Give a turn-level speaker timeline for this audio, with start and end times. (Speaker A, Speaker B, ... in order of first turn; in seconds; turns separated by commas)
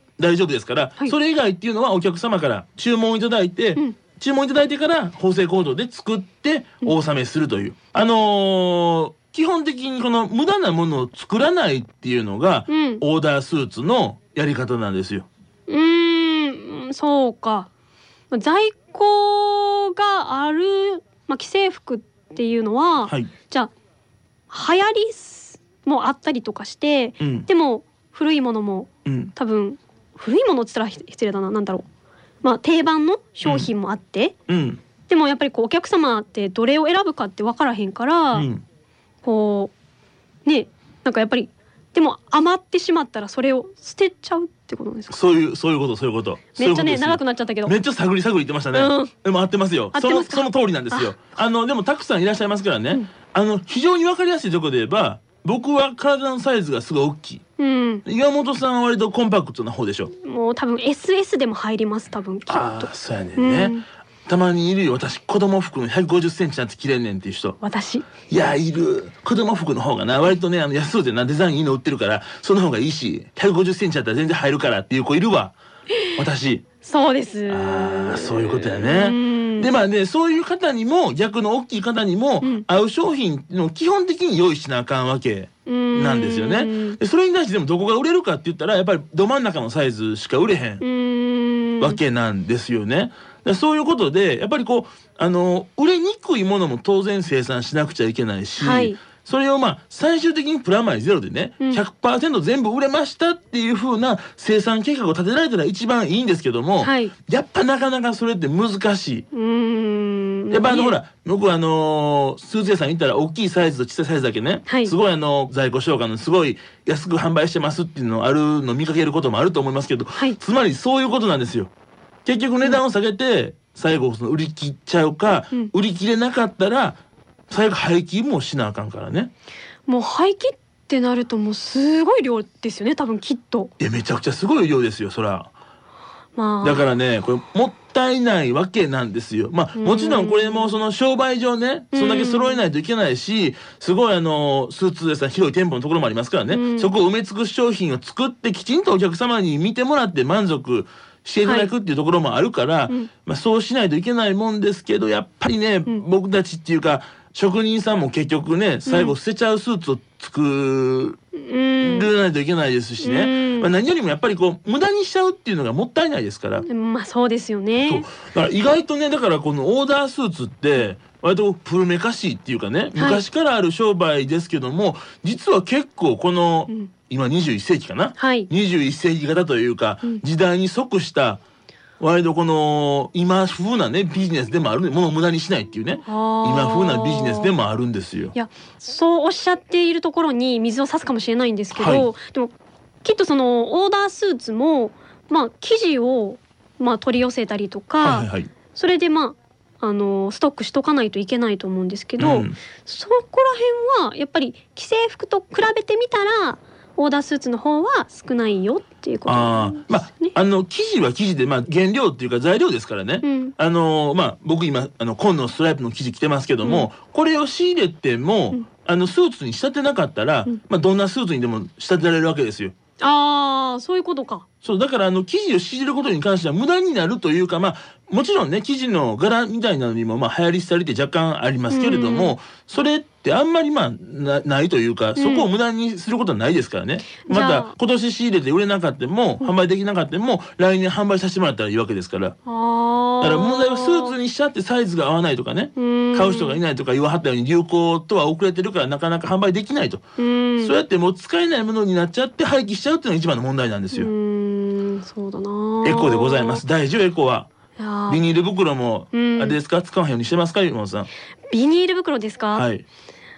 Speaker A: 0.2-15.3, Speaker B: 12.7-13.0, Speaker B: 15.7-17.7, Speaker B: 18.3-23.7, Speaker A: 23.0-23.3, Speaker B: 24.5-31.8, Speaker A: 27.2-27.5, Speaker A: 29.0-29.3, Speaker B: 32.4-34.3, Speaker A: 33.4-33.7, Speaker A: 34.5-34.8, Speaker B: 35.1-38.5, Speaker A: 38.3-38.6, Speaker B: 39.2-39.7, Speaker B: 40.4-45.1, Speaker A: 45.1-57.4, Speaker B: 46.5-47.7, Speaker B: 48.7-49.1, Speaker B: 49.9-51.1, Speaker B: 57.6-58.0, Speaker A: 58.0-60.1, Speaker B: 60.1-63.8, Speaker A: 62.5-63.7, Speaker A: 64.3-67.6, Speaker B: 67.6-68.1, Speaker A: 68.3-75.6, Speaker A: 76.1-76.6, Speaker B: 76.8-79.7, Speaker A: 77.5-90.8, Speaker B: 85.7-87.0, Speaker B: 90.8-92.0, Speaker A: 91.8-109.2, Speaker B: 98.6-99.0, Speaker B: 106.8-107.1, Speaker B: 109.3-111.0, Speaker A: 110.5-121.7, Speaker B: 114.7-114.9, Speaker A: 122.2-129.3, Speaker B: 129.9-133.7, Speaker A: 133.8-135.5, Speaker B: 136.3-136.8, Speaker A: 136.6-161.2, Speaker B: 139.8-140.8, Speaker B: 141.9-142.6, Speaker B: 146.5-146.9, Speaker B: 151.4-151.7, Speaker B: 158.8-159.1, Speaker B: 161.3-162.1, Speaker A: 161.8-166.7, Speaker B: 163.0-163.7, Speaker B: 166.7-168.1, Speaker A: 167.8-181.4, Speaker B: 172.9-173.2, Speaker B: 178.2-178.5, Speaker A: 182.0-188.3, Speaker B: 186.1-187.5, Speaker B: 188.3-210.3, Speaker A: 191.7-192.1, Speaker A: 198.0-198.5, Speaker A: 202.2-202.6, Speaker A: 209.3-222.7, Speaker B: 213.2-213.6, Speaker B: 216.6-216.9, Speaker B: 223.0-224.4, Speaker A: 224.6-242.3, Speaker B: 231.7-232.3, Speaker B: 235.2-235.5, Speaker B: 237.2-237.7, Speaker B: 242.4-244.2, Speaker A: 243.2-250.0, Speaker B: 245.8-246.6, Speaker B: 250.2-250.8, Speaker A: 250.6-254.1, Speaker B: 253.9-256.6, Speaker A: 255.8-257.5, Speaker B: 257.8-258.2, Speaker A: 258.1-261.1, Speaker B: 259.1-259.6, Speaker B: 261.5-262.7, Speaker A: 262.5-262.8